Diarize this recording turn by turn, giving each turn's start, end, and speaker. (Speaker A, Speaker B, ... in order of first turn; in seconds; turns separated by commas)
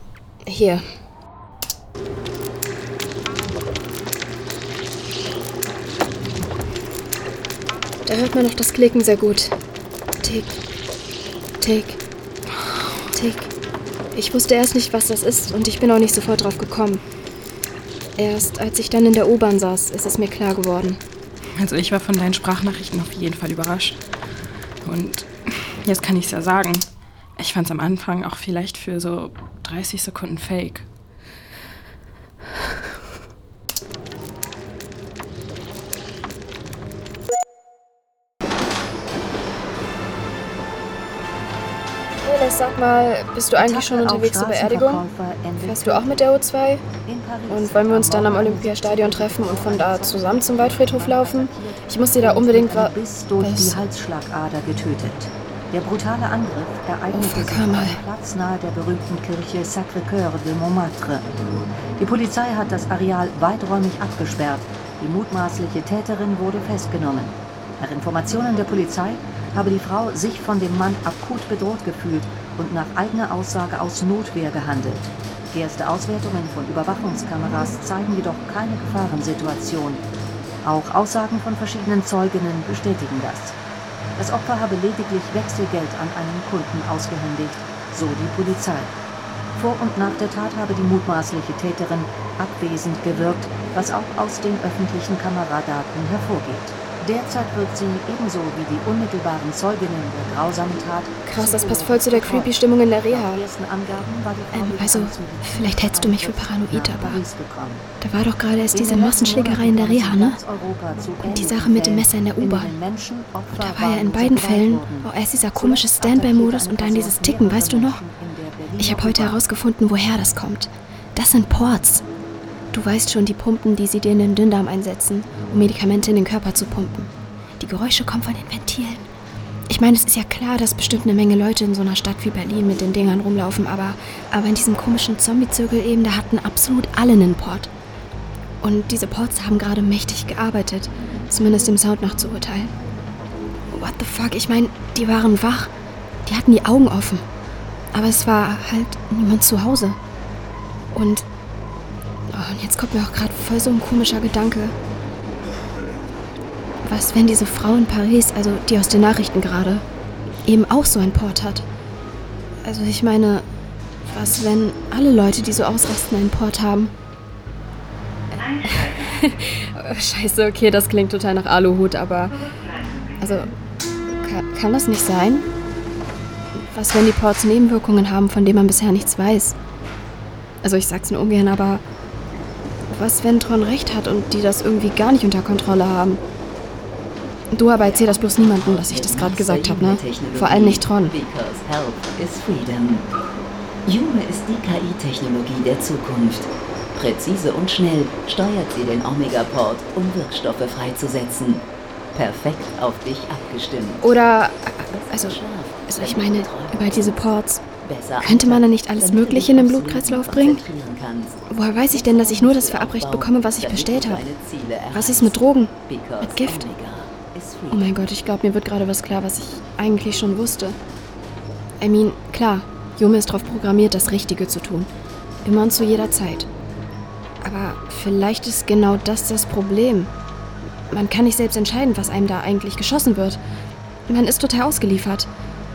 Speaker A: 0.5-0.8, Speaker A: 8.0-9.5, Speaker A: 10.2-10.6, Speaker A: 11.6-12.0, Speaker A: 13.1-13.5, Speaker A: 14.1-17.0, Speaker A: 18.2-21.0, Speaker B: 21.6-24.0, Speaker B: 24.8-30.9, Speaker A: 42.2-45.0, Speaker C: 43.5-46.3, Speaker A: 45.6-46.8, Speaker C: 47.0-61.2, Speaker A: 47.5-53.8, Speaker A: 57.1-58.0, Speaker C: 62.0-80.0, Speaker C: 80.6-83.6, Speaker C: 84.2-88.9, Speaker C: 89.5-107.8, Speaker A: 101.2-103.4, Speaker A: 104.5-107.2, Speaker A: 108.0-110.4, Speaker C: 108.7-119.4, Speaker A: 111.2-112.7, Speaker A: 113.5-118.0, Speaker A: 118.8-122.0, Speaker A: 122.7-129.0, Speaker A: 129.7-137.7, Speaker A: 138.6-142.7, Speaker A: 143.7-145.7, Speaker A: 146.2-147.2, Speaker A: 147.9-150.0, Speaker A: 150.9-151.3, Speaker A: 152.3-154.7, Speaker A: 156.8-159.8, Speaker A: 160.4-161.7, Speaker A: 162.6-163.4, Speaker A: 164.1-166.9, Speaker A: 168.3-172.3, Speaker A: 173.2-173.5, Speaker A: 174.2-175.5, Speaker A: 176.6-179.5, Speaker A: 180.6-181.8, Speaker A: 182.9-186.2, Speaker A: 187.5-191.1, Speaker D: 187.8-193.1, Speaker D: 193.8-204.2, Speaker A: 204.0-207.6, Speaker D: 204.8-218.1, Speaker A: 208.2-210.6, Speaker A: 211.5-214.2, Speaker A: 214.9-216.7, Speaker A: 217.7-220.8, Speaker A: 221.8-224.9, Speaker A: 225.4-226.5, Speaker A: 227.4-230.1, Speaker A: 230.9-233.4, Speaker A: 234.1-235.3